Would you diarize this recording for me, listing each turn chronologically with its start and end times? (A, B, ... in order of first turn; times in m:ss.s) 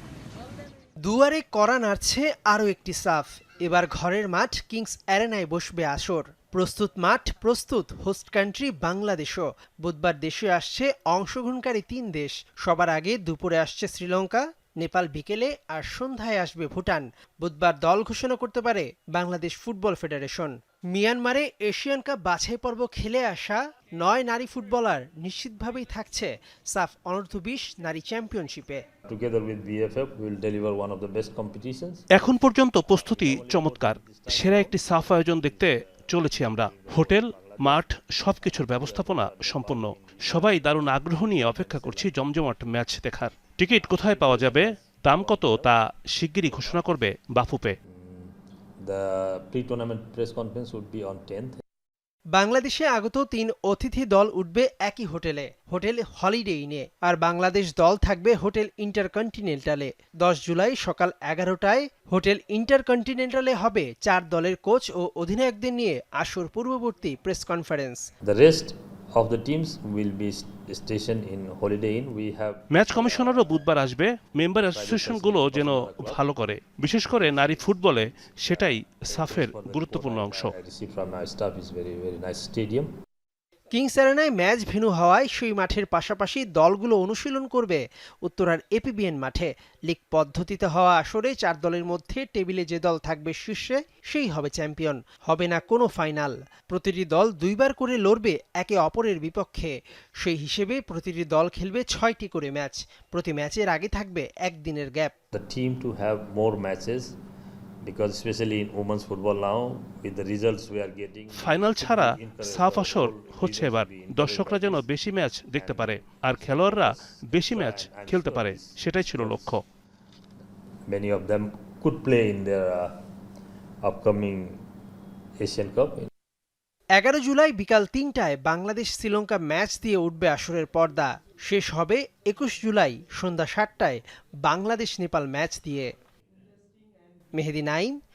0:01.0-0:28.8 A
0:29.1-0:32.0 B
0:32.1-0:47.8 C
0:32.8-0:42.2 B
0:43.9-0:45.7 B
0:46.4-0:46.8 B
0:47.8-0:51.6 B
0:52.3-1:08.0 A
1:08.2-1:13.6 B
1:12.7-1:20.5 C
1:14.7-1:16.2 B
1:17.1-1:22.9 B
1:23.7-1:45.1 A
1:45.3-1:47.2 B
1:47.8-1:54.9 B
1:51.3-1:59.6 C
1:55.5-1:59.6 B
2:00.9-2:03.0 B
2:03.8-2:04.6 B
2:05.4-2:06.1 B
2:07.0-2:15.9 A
2:17.3-2:18.0 A